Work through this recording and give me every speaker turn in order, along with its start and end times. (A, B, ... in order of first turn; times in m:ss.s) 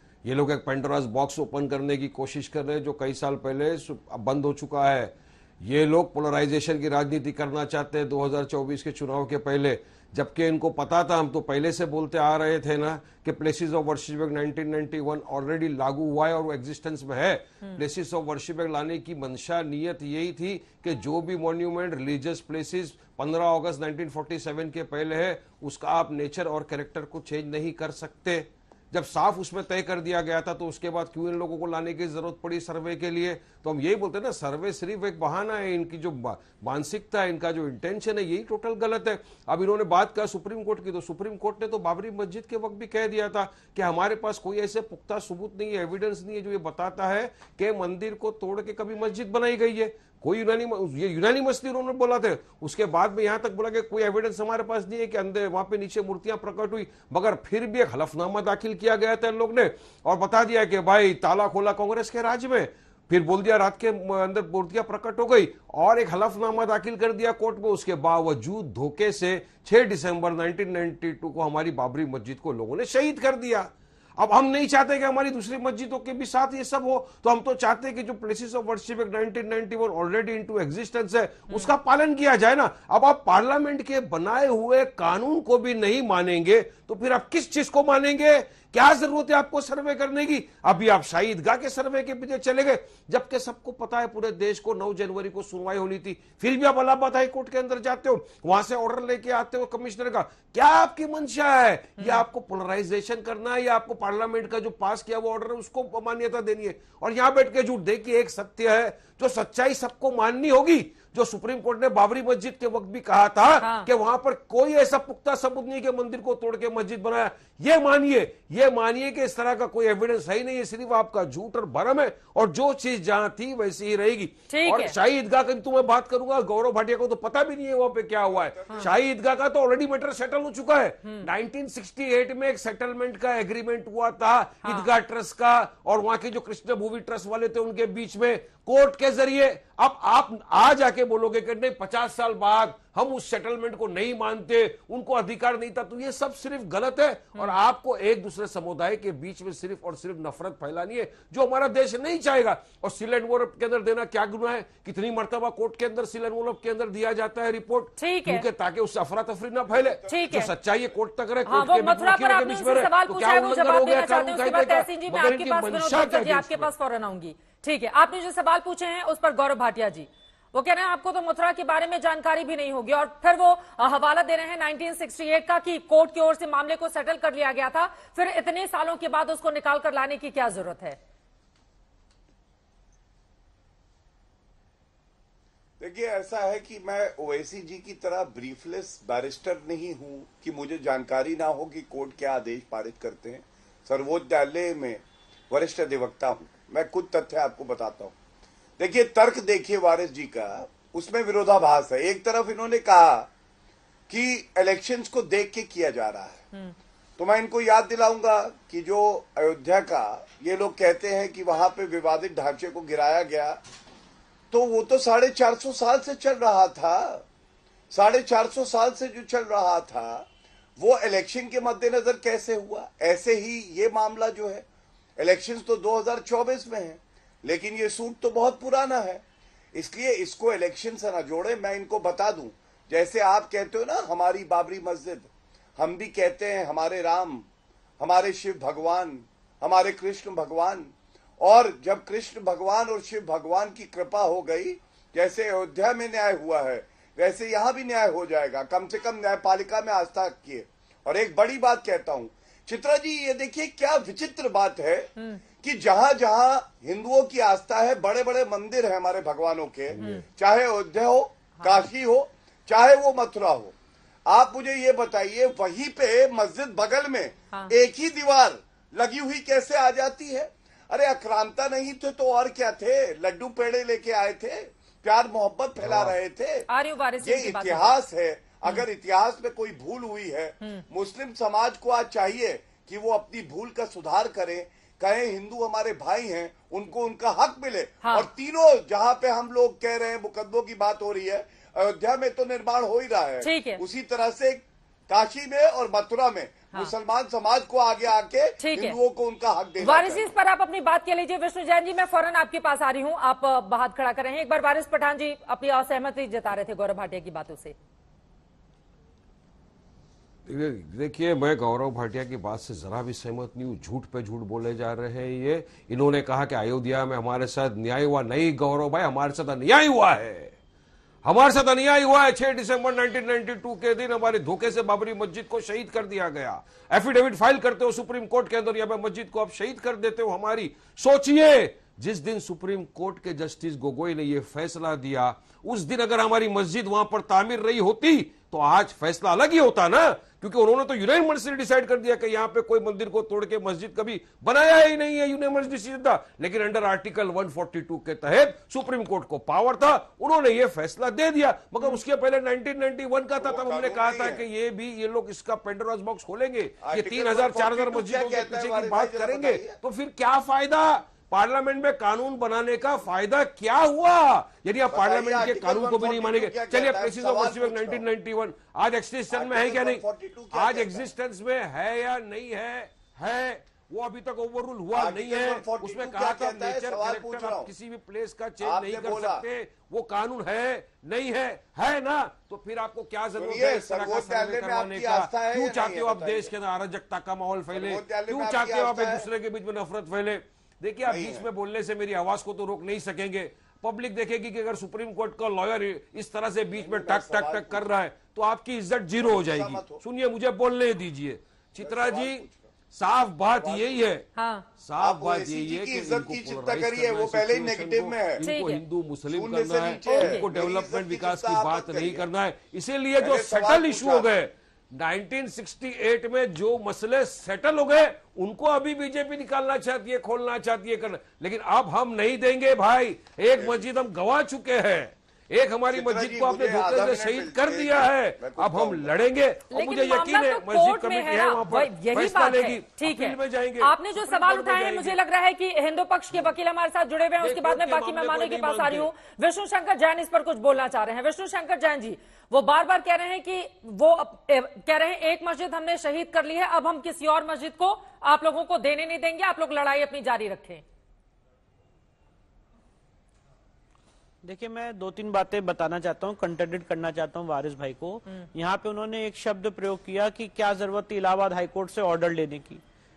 0:00.2-2:46.7 A
1:21.5-1:21.8 B
1:42.0-1:42.2 B
1:53.6-1:53.9 B
2:04.5-2:04.9 B
2:08.3-2:08.9 C
2:14.6-2:14.9 B
2:27.3-2:27.6 B
2:38.0-2:38.4 B
2:39.7-2:40.3 C
2:40.1-2:40.5 B
2:41.4-3:01.0 B
3:05.8-3:18.1 C
3:18.8-3:23.3 C
3:24.1-3:26.5 C
3:27.2-3:33.6 C
3:34.5-3:37.2 C
3:37.9-3:40.3 C
3:40.8-3:44.6 C
3:45.2-3:49.2 C
3:49.7-3:57.5 C
3:58.0-4:15.1 C
4:15.6-4:23.7 C
4:20.0-4:20.2 B
4:21.6-4:21.9 B
4:24.3-4:36.6 C
4:35.8-4:36.1 A
4:36.7-4:37.9 B
4:37.2-5:00.3 C
4:48.0-4:48.3 B
4:53.4-4:53.8 B
4:58.6-4:59.0 B
4:59.8-5:07.7 B
5:10.4-5:20.5 A
5:21.2-6:44.2 A
5:53.4-5:54.4 C
5:56.8-5:59.8 C
6:04.9-6:08.1 C
6:09.3-6:11.1 C
6:14.9-6:17.7 C
6:18.6-6:19.4 C
6:23.3-6:26.5 C
6:27.7-6:29.2 C
6:31.0-6:31.5 C
6:36.7-6:37.8 C
6:39.2-6:40.0 C
6:41.8-6:42.7 C
6:43.4-6:44.1 C
6:44.4-6:44.7 B
6:44.8-7:15.2 A
6:45.0-6:48.4 C
6:48.4-6:48.8 B
6:49.3-6:52.2 C
6:50.0-6:50.4 B
6:53.2-6:54.3 C
7:03.6-7:03.8 C
7:05.9-7:09.1 C
7:09.7-7:30.8 B
7:17.4-7:19.1 A
7:34.4-7:42.8 D